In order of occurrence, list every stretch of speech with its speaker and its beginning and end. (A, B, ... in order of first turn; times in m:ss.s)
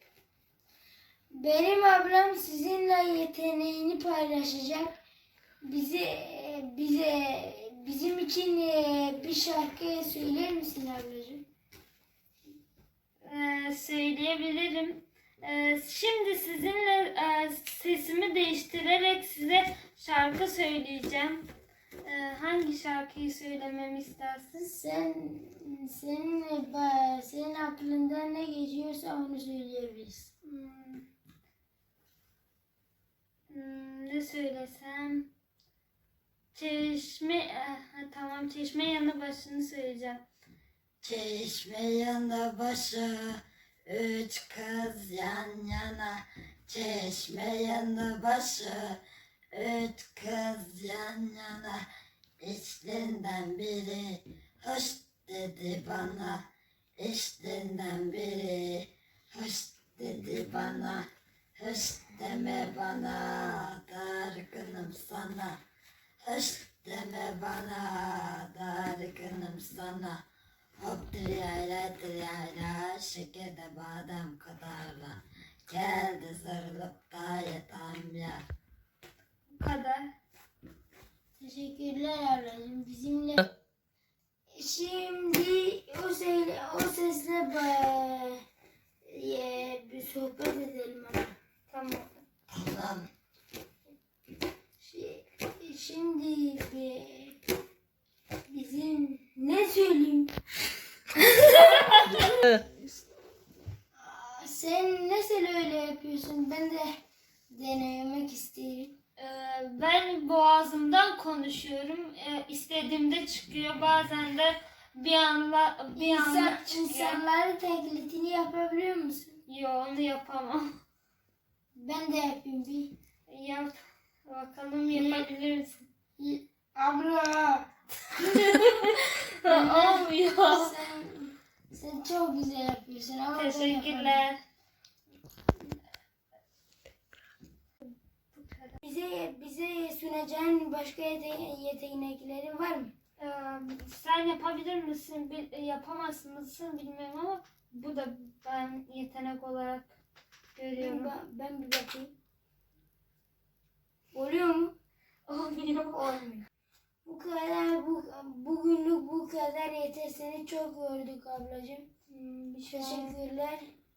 0:01.3-0:05.0 A
0:05.6-0:11.4 A
0:13.2-0:21.4 B
0:22.0-0:24.7 B
0:24.6-0:30.3 A
0:30.4-0:31.0 B
0:33.5-0:35.3 B
0:36.5-0:40.2 B
0:41.0-0:49.0 C
0:49.5-0:51.8 C
0:52.4-1:01.1 C
1:01.6-1:05.6 C
1:06.2-1:10.2 C
1:10.8-1:18.4 C
1:19.5-1:20.1 B
1:21.4-1:23.5 A
1:24.5-1:28.4 A
1:29.0-1:31.3 A
1:31.7-1:32.1 B
1:32.5-1:33.1 C
1:34.8-1:37.4 A
1:38.5-1:40.3 A
1:41.6-1:42.4 B
1:44.0-1:47.0 A
1:47.5-1:48.9 A
1:49.2-1:57.2 B
1:56.0-1:59.4 A
1:59.5-2:00.7 B
2:01.7-2:02.9 A
2:03.3-2:05.8 B
2:04.9-2:05.3 A
2:06.2-2:08.5 A
2:08.2-2:10.7 B
2:09.1-2:14.2 A
2:13.3-2:14.4 B
2:18.3-2:18.8 B
2:18.8-2:22.9 A
2:23.2-2:29.9 B
2:30.6-2:31.1 B
2:30.8-2:32.1 A
2:34.1-2:34.7 A
2:35.3-2:36.0 B
2:35.9-2:36.4 A
2:37.0-2:41.9 A
2:42.1-2:43.2 B
2:42.7-2:43.7 A